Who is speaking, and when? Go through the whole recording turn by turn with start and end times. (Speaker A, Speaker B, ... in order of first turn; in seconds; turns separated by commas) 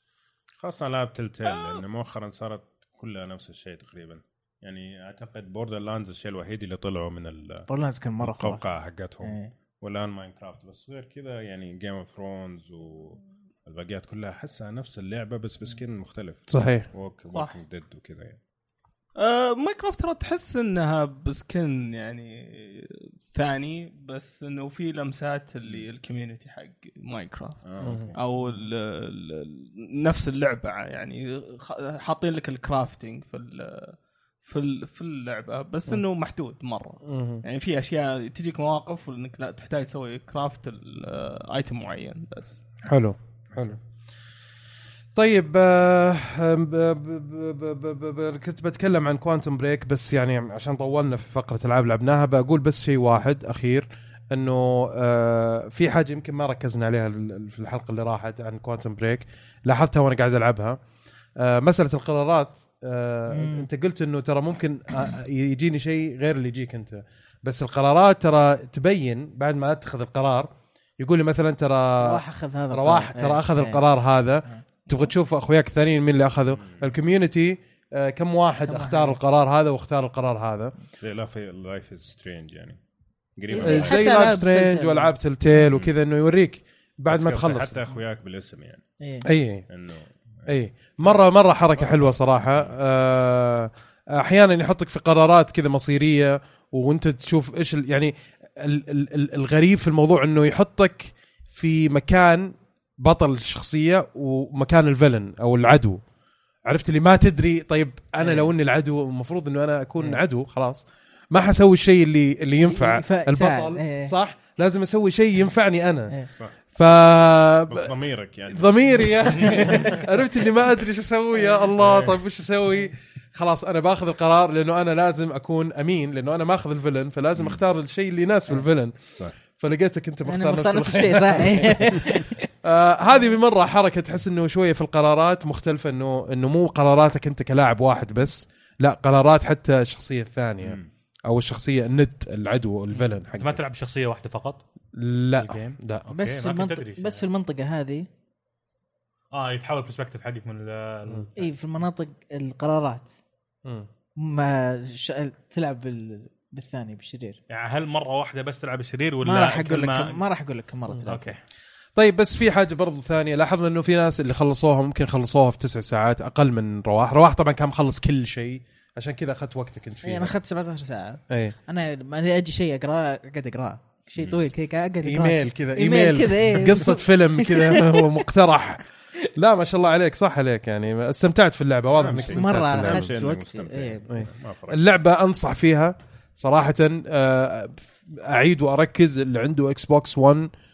Speaker A: 0.6-7.7, Speaker B: 7.7-8.6, Speaker A: 8.2-18.4, Speaker B: 9.2-9.5, Speaker C: 16.5-16.9, Speaker D: 17.3-17.6, Speaker D: 19.2-42.6, Speaker A: 27.6-28.1, Speaker C: 27.8-28.1, Speaker C: 37.0-37.4, Speaker C: 42.9-43.8, Speaker C: 45.1-60.8, Speaker C: 61.4-80.7, Speaker B: 63.3-63.7, Speaker B: 72.0-73.8, Speaker A: 76.6-76.9, Speaker B: 78.7-79.2, Speaker A: 81.0-84.1, Speaker B: 83.5-85.1, Speaker C: 83.6-87.8, Speaker A: 87.1-88.8, Speaker B: 89.0-89.2, Speaker C: 89.2-89.7, Speaker A: 89.7-92.8, Speaker C: 90.5-106.0, Speaker C: 106.7-117.9, Speaker B: 108.2-108.5, Speaker B: 112.7-114.1, Speaker A: 117.7-120.0, Speaker C: 118.5-143.6, Speaker A: 121.7-122.2, Speaker A: 127.3-127.6, Speaker B: 130.2-132.4, Speaker A: 140.6-140.9, Speaker E: 143.3-144.6, Speaker C: 144.9-146.1, Speaker E: 145.4-147.2, Speaker B: 146.1-148.1, Speaker E: 149.3-151.5, Speaker B: 151.3-153.1, Speaker B: 154.2-157.4, Speaker E: 157.5-160.2, Speaker B: 159.2-161.4, Speaker E: 161.1-161.4, Speaker C: 161.9-170.3, Speaker B: 170.0-178.1, Speaker C: 171.3-171.6, Speaker A: 174.2-174.4, Speaker C: 175.0-183.1, Speaker A: 181.9-184.8, Speaker B: 182.1-184.1, Speaker C: 184.1-190.5